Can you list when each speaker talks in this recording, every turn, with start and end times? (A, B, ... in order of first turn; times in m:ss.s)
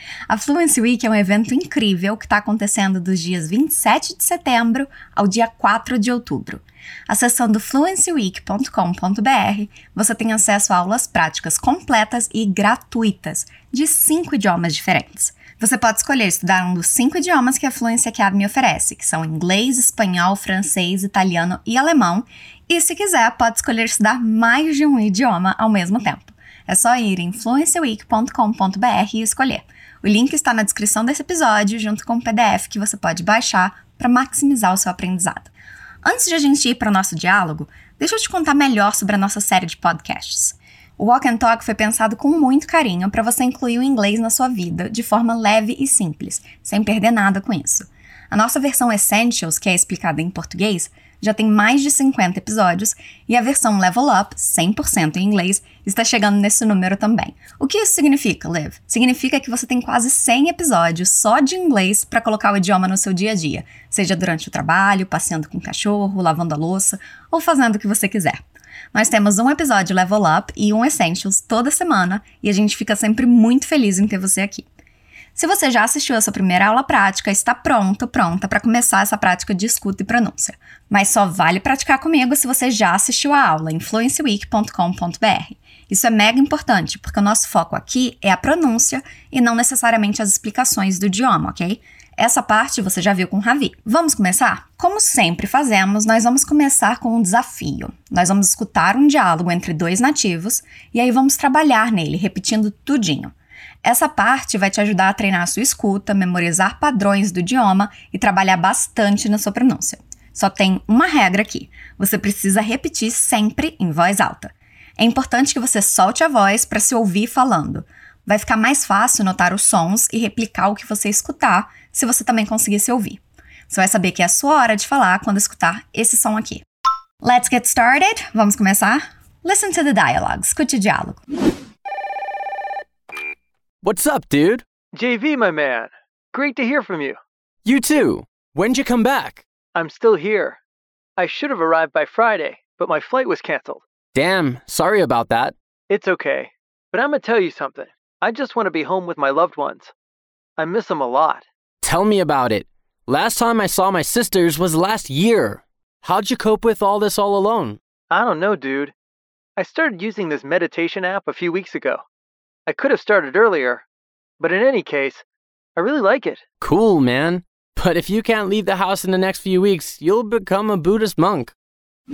0:00.3-0:35.5 A
0:36.0-1:08.4 A
1:08.9-1:14.7 A
1:15.4-2:06.6 A
2:07.2-2:11.2 A
2:13.8-2:14.6 B
2:14.9-2:17.2 C
2:17.6-2:19.4 B
2:19.8-2:20.6 C
2:21.2-2:23.8 C
2:24.1-2:25.5 B
2:25.9-2:29.9 C
2:30.6-2:31.4 C
2:31.8-2:37.8 B
2:38.1-2:38.9 C
2:39.6-2:42.0 C
2:42.7-2:43.8 C
2:44.4-2:45.2 C
2:45.8-2:46.4 C
2:46.6-2:51.5 B